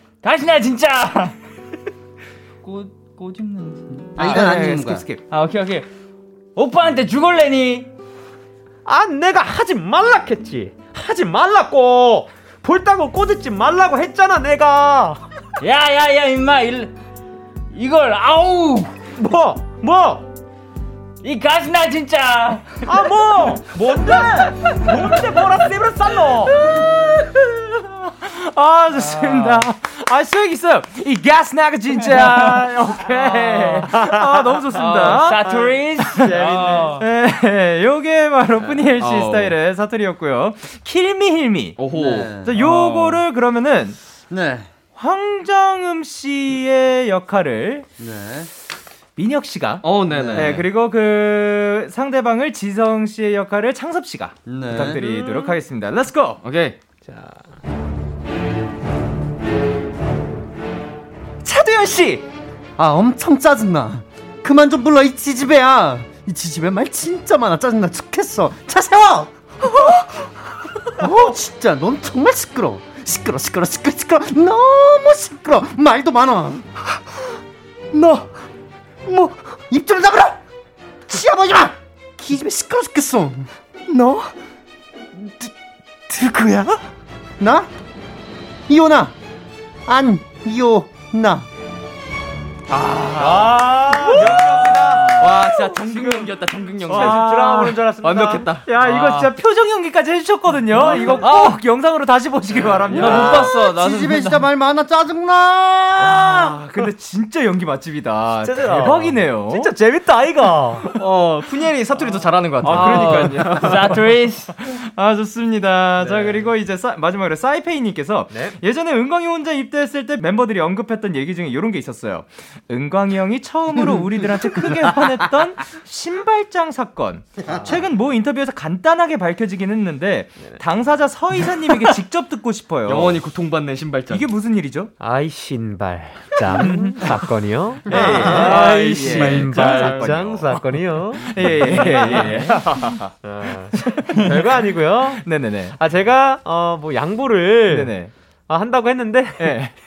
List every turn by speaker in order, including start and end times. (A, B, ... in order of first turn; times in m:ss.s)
0:00.2-0:01.3 A
0:02.6-0:04.4 A
0:04.2-0:05.0 B
0:04.2-0:05.2 C
0:05.3-0:05.9 A
0:06.6-0:07.9 A
0:08.9-0:15.2 D
0:15.6-0:16.9 A
0:17.7-0:18.9 A
0:19.2-0:20.2 D
0:21.2-0:22.9 A
0:22.8-0:26.5 D
0:23.9-0:24.5 C
0:26.6-0:26.9 C
0:28.0-0:35.5 C
0:29.2-0:29.6 A
0:32.1-0:32.6 A
0:34.8-0:37.0 A
0:35.4-0:37.0 D
0:37.0-0:41.8 C
0:39.0-0:39.5 E
0:41.8-0:43.1 E
0:41.9-0:42.5 B
0:42.4-0:44.0 C
0:44.3-0:44.7 B
0:44.9-0:47.9 C
0:48.0-0:48.5 B
0:49.2-0:56.4 C
0:49.8-0:50.7 E
0:50.1-0:50.6 B
0:54.4-0:55.0 B
0:55.0-0:55.5 D
0:56.4-0:56.8 E
0:57.1-0:57.4 D
1:01.4-1:02.2 C
1:02.8-1:10.0 B
1:10.9-1:16.7 B
1:17.9-1:18.3 B
1:19.0-1:20.4 B
1:21.1-1:24.2 B
1:26.1-1:26.7 B
1:27.4-1:27.7 B
1:28.7-1:29.1 B
1:29.9-1:31.5 B
1:32.7-1:34.7 C
1:33.1-1:35.2 D
1:34.2-1:35.4 A
1:35.2-1:37.5 E
1:35.9-1:36.2 D
1:36.9-1:37.8 C
1:36.9-1:39.2 D
1:38.0-1:38.7 E
1:38.6-1:43.5 C
1:40.8-1:41.5 D
1:41.2-1:41.5 A
1:42.6-1:42.9 D
1:42.9-1:44.4 A
1:42.9-1:46.6 B
1:46.0-1:49.7 C
1:48.4-1:50.8 D
1:50.9-1:53.8 E
1:52.6-2:13.2 C
1:52.6-1:54.5 A
1:56.0-1:56.4 D
1:58.3-1:58.6 D
2:12.9-2:14.3 E
2:14.1-2:14.9 C
2:15.0-2:25.2 D
2:16.6-2:16.9 C
2:17.9-2:23.1 C
2:17.9-2:20.3 E
2:23.8-2:24.4 C
2:25.2-2:25.7 C
2:25.8-2:27.9 D
2:27.7-2:28.1 C
2:28.5-2:29.6 D
2:29.4-2:29.7 C